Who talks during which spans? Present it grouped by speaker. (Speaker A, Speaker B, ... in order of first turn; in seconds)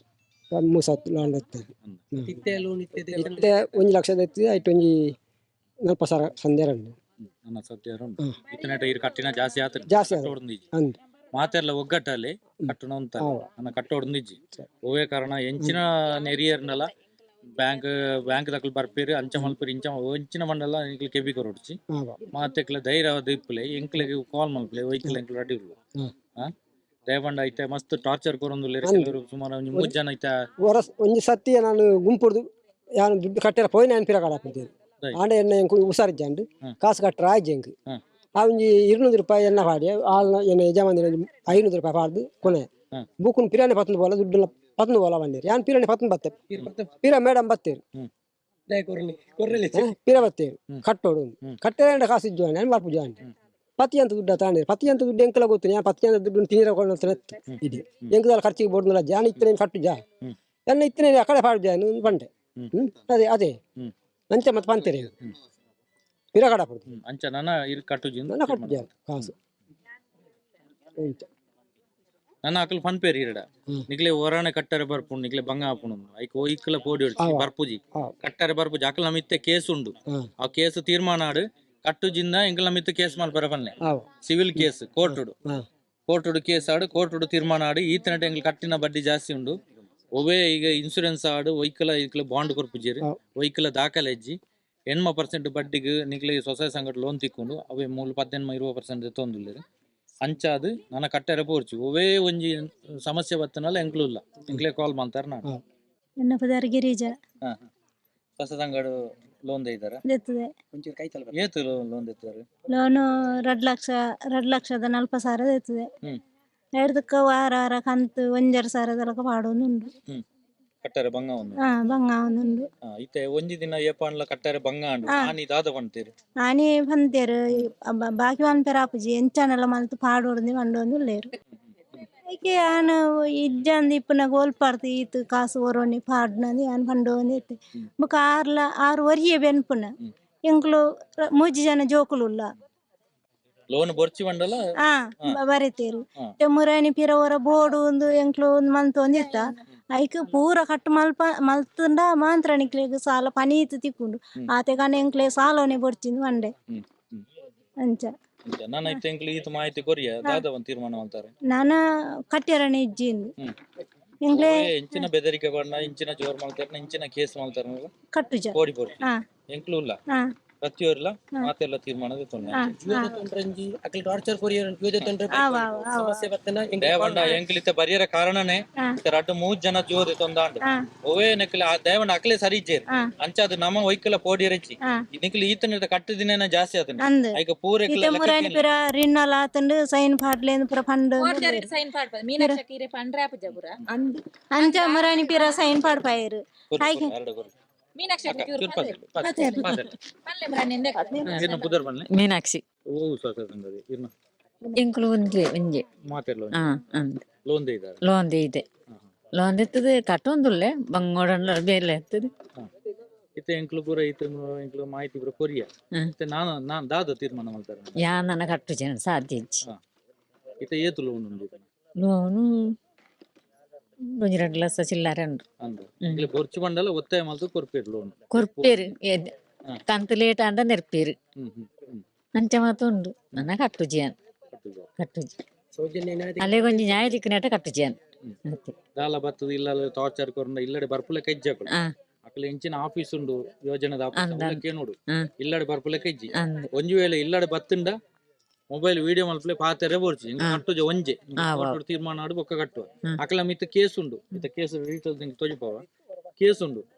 Speaker A: 0.5-2.4, 3.1-5.2, 5.8-7.0, 9.9-11.0, 12.6-13.5, 21.9-22.2, 28.8-29.2, 30.6-37.7, 38.4-46.4, 47.0-47.8, 49.7-53.2, 53.8-60.0, 60.7-63.6, 64.3-65.1, 66.3-66.8, 68.3-69.3, 71.0-71.3, 77.2-78.1, 83.8-85.7
Speaker B: 2.2-3.9, 46.5-46.9, 48.7-49.9, 110.7-111.4, 172.8-177.4, 235.7-237.1
Speaker C: 7.5-10.7, 11.3-16.9, 17.6-21.8, 22.3-25.8, 27.1-30.4, 57.5-58.1, 66.9-69.3, 72.4-85.4, 86.1-89.5, 90.2-94.4, 94.9-99.6, 100.2-105.5, 108.4-108.9, 109.5-110.0, 111.3-112.5, 120.8-121.6, 122.9-126.1, 143.7-144.6, 156.7-157.2, 158.5-161.3, 164.3-167.9, 168.6-169.0, 169.5-170.0, 170.6-172.7, 176.8-188.6, 196.7-197.5, 198.2-199.9, 201.2-202.1, 203.0-204.1, 206.1-206.6, 207.4-208.0, 213.4-218.0, 220.6-221.7, 225.6-228.7, 231.4-232.0, 234.5-234.9, 239.0-241.7, 242.3-248.0, 248.7-255.9, 256.4-256.9
Speaker D: 106.2-107.1, 110.1-110.5, 112.7-115.9, 116.8-119.9, 121.6-122.7, 125.1-125.3, 126.4-131.3, 132.3-139.9, 140.4-142.5, 144.9-156.5, 157.8-158.1, 161.5-161.8, 162.3-163.3, 164.3-165.1, 168.1-169.2, 172.5-173.2, 175.3-176.3, 187.0-191.7, 193.9-197.1, 199.2-199.7
Speaker E: 191.2-193.8, 194.6-195.6, 198.0-201.8
Speaker F: 202.1-202.6, 204.8-205.8, 206.5-207.2, 208.0-208.6, 209.4-212.3, 218.0-219.7, 222.0-222.7, 224.1-225.4, 226.0-226.3, 228.3-229.3, 229.9-231.2, 232.3-234.2, 235.0-235.3, 236.4-238.8, 244.2-245.3, 246.3-246.7, 251.4-251.8